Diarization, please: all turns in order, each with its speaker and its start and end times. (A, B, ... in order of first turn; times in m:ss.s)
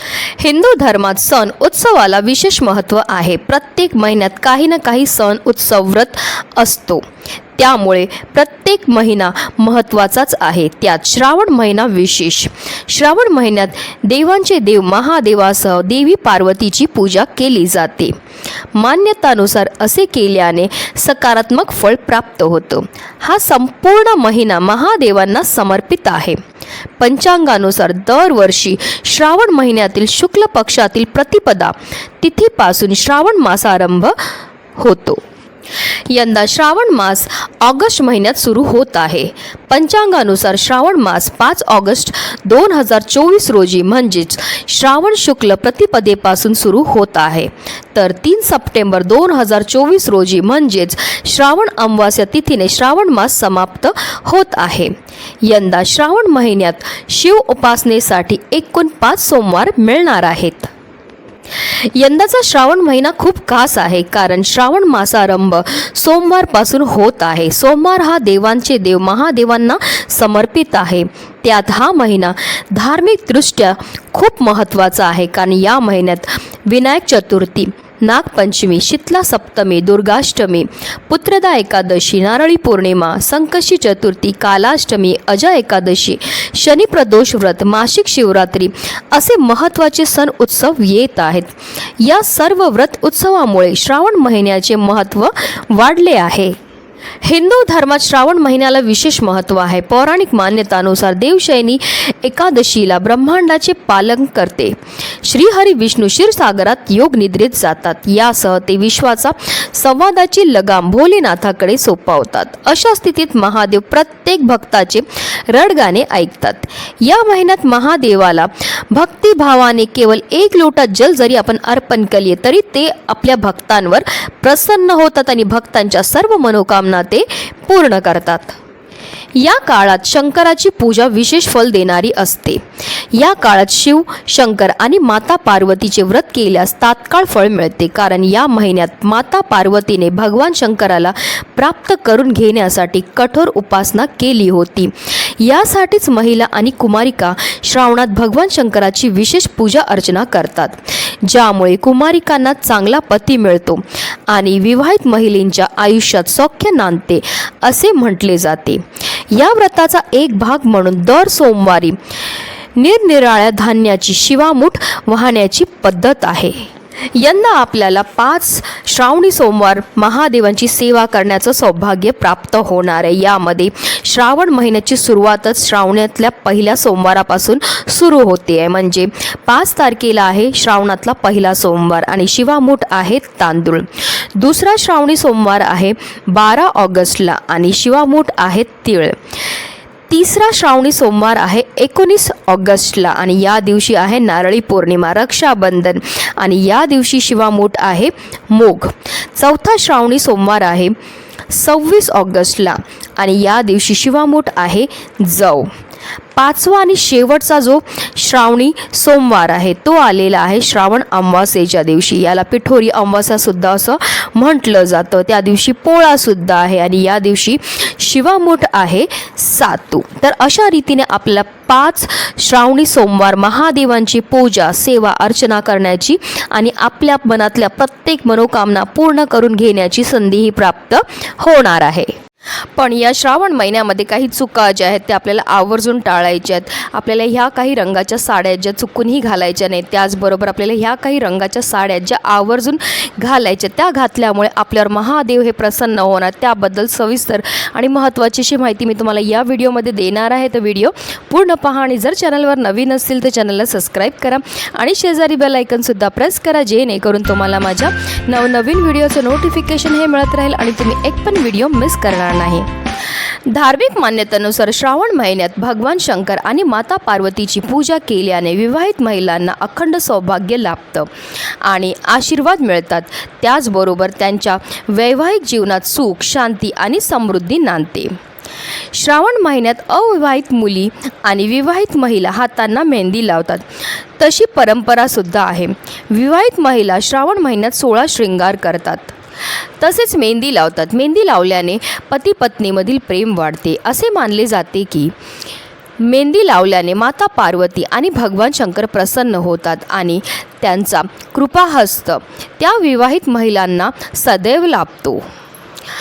0:00.4-0:07.0 A
0:07.6-0:18.2 A
0:18.7-0:26.4 A
0:27.0-0:34.1 A
0:34.8-0:35.2 A
0:36.1-1:00.7 A
1:01.6-1:36.6 A
1:37.2-2:08.6 A
2:09.3-2:12.6 A
2:13.1-2:42.0 A
2:42.8-3:09.2 A
3:10.1-3:20.9 A
3:21.5-3:25.7 A
3:26.3-3:52.1 A
3:52.8-4:22.7 A
4:23.5-4:31.1 A
4:31.6-4:38.2 A
4:38.9-4:43.6 A
4:44.2-4:49.1 A
4:49.8-4:55.1 A
4:56.0-5:05.2 A